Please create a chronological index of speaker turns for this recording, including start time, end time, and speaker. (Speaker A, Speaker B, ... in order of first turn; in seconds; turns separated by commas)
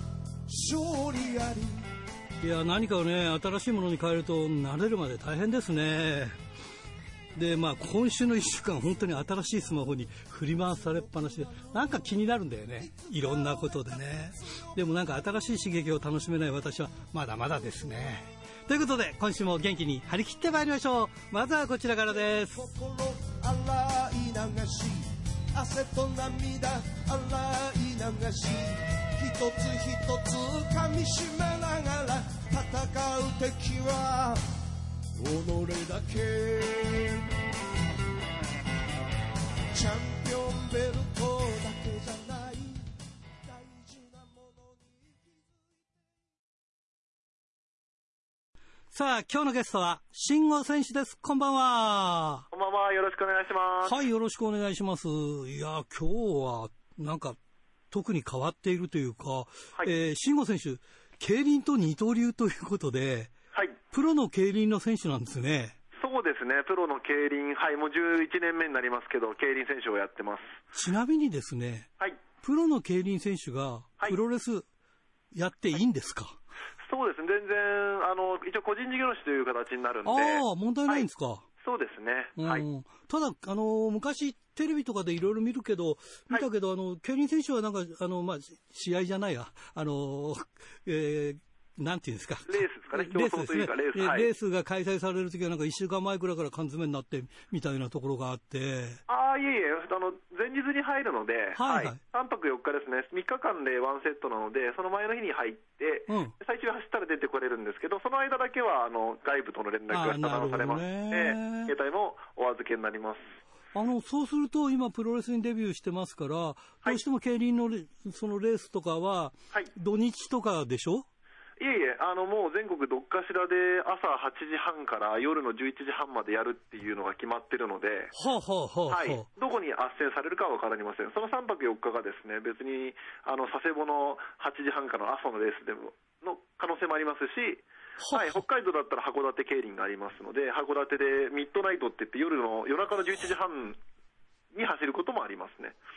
Speaker A: 0.5-1.8, Speaker B: 2.4-6.4, Speaker B: 7.3-22.7, Speaker A: 11.5-11.7, Speaker A: 12.9-13.6, Speaker A: 14.5-14.8, Speaker A: 22.2-34.5, Speaker A: 35.2-37.4, Speaker A: 39.7-42.9, Speaker A: 43.4-45.9, Speaker B: 48.9-52.5, Speaker C: 52.5-54.0, Speaker B: 53.8-57.4, Speaker B: 57.9-63.3, Speaker B: 63.9-65.8, Speaker C: 66.0-70.6, Speaker B: 70.7-71.9, Speaker B: 72.4-74.7, Speaker B: 75.3-76.4, Speaker C: 76.8-81.1, Speaker B: 80.0-81.5, Speaker C: 81.6-82.7, Speaker B: 82.4-99.0, Speaker C: 92.5-94.3, Speaker C: 99.1-113.2, Speaker B: 101.5-102.0, Speaker B: 106.1-106.3, Speaker B: 109.9-111.7, Speaker B: 113.7-121.0, Speaker C: 121.6-128.1, Speaker B: 128.1-129.3, Speaker C: 128.9-143.8, Speaker B: 138.0-138.4, Speaker C: 144.5-145.8